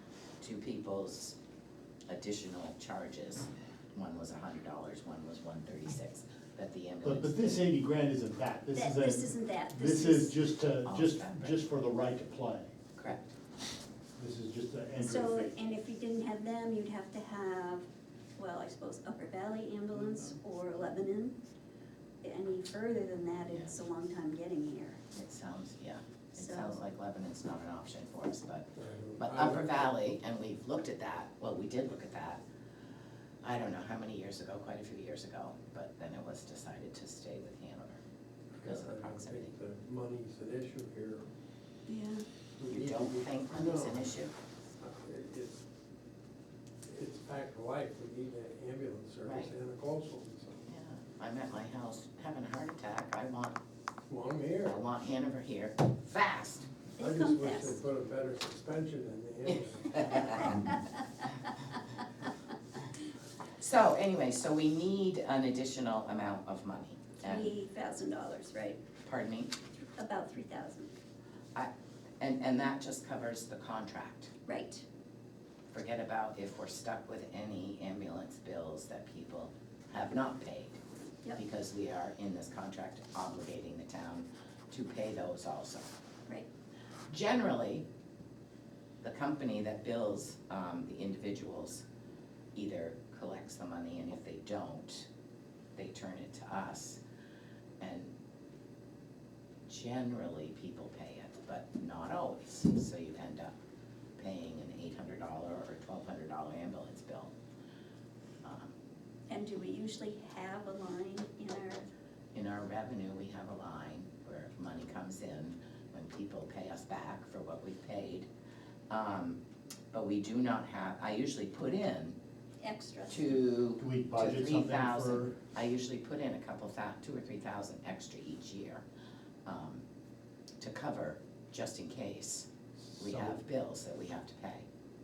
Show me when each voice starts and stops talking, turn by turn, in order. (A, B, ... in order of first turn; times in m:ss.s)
0:00.4-0:01.4 A
0:02.1-0:07.6 A
0:07.0-0:12.7 B
0:08.8-0:10.4 C
0:10.8-0:11.6 A
0:12.9-0:13.3 A
0:14.2-0:15.5 B
0:15.0-0:17.9 C
0:18.4-0:21.4 C
0:22.2-0:25.0 C
0:25.1-0:32.4 A
0:26.4-0:26.8 C
0:28.8-0:29.9 D
0:33.4-0:38.0 A
0:38.6-0:39.5 A
0:38.6-0:41.3 D
0:41.9-0:42.2 C
0:42.6-0:44.1 D
0:42.7-0:44.3 A
0:44.8-0:45.6 D
0:46.9-0:50.6 D
0:49.2-0:49.5 A
0:50.7-0:53.6 A
0:54.1-0:54.8 D
0:54.7-0:56.7 A
0:57.0-0:57.8 C
0:57.0-1:00.6 D
0:59.5-1:00.7 A
1:00.1-1:01.0 C
1:03.6-1:07.5 A
1:07.2-1:08.8 C
1:09.0-1:09.5 A
1:10.0-1:10.9 C
1:11.6-1:14.3 A
1:14.5-1:14.8 C
1:15.7-1:20.8 A
1:21.4-1:25.9 A
1:27.1-1:27.8 A
1:29.0-1:31.8 A
1:32.6-1:35.1 A
1:35.8-1:37.0 A
1:37.8-1:38.1 A
1:39.7-1:43.6 A
1:44.2-1:47.3 A
1:48.4-1:48.8 A
1:49.3-1:51.9 C
1:52.3-1:58.3 A
1:58.9-1:59.4 A
1:59.9-2:02.2 A
2:02.6-2:03.4 C
2:03.1-2:08.8 A
2:03.8-2:05.4 B
2:09.4-2:09.8 A
2:10.6-2:14.7 A
2:12.9-2:13.4 B